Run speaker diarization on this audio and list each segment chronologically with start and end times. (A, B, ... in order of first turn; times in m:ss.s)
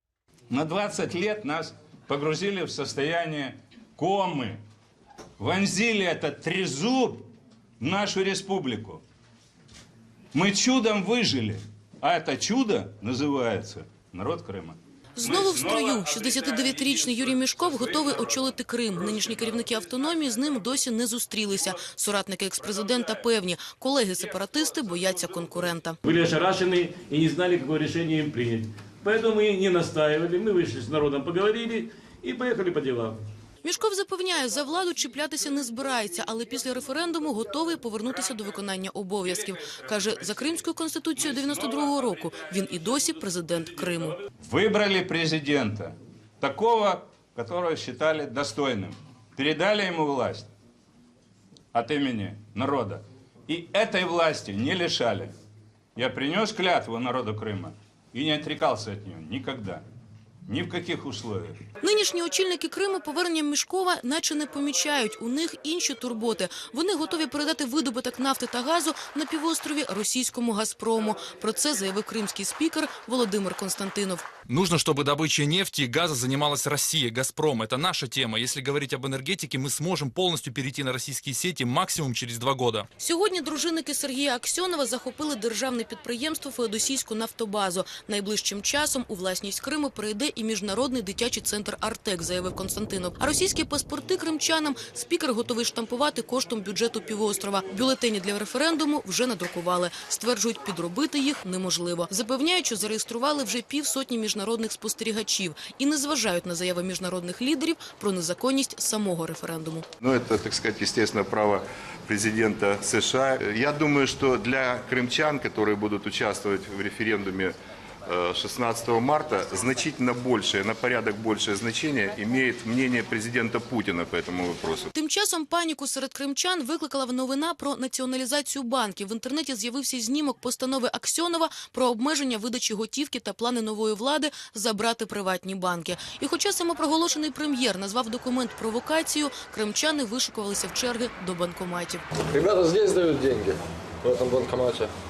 0:00.5-0:04.6 A
0:05.4-0:07.3 A
0:07.8-0:09.0 A
0:10.3-0:15.8 A
0:15.2-0:26.0 B
0:26.0-0:33.2 C
0:33.6-0:44.2 B
0:44.4-0:50.5 A
0:51.7-0:55.3 A
0:56.0-0:59.8 A
1:00.5-1:01.6 A
1:01.8-1:14.3 B
1:14.5-1:22.9 D
1:23.0-1:49.9 B
1:50.0-1:57.5 E
1:58.1-2:04.9 E
2:04.9-2:22.0 B
2:22.3-2:24.9 F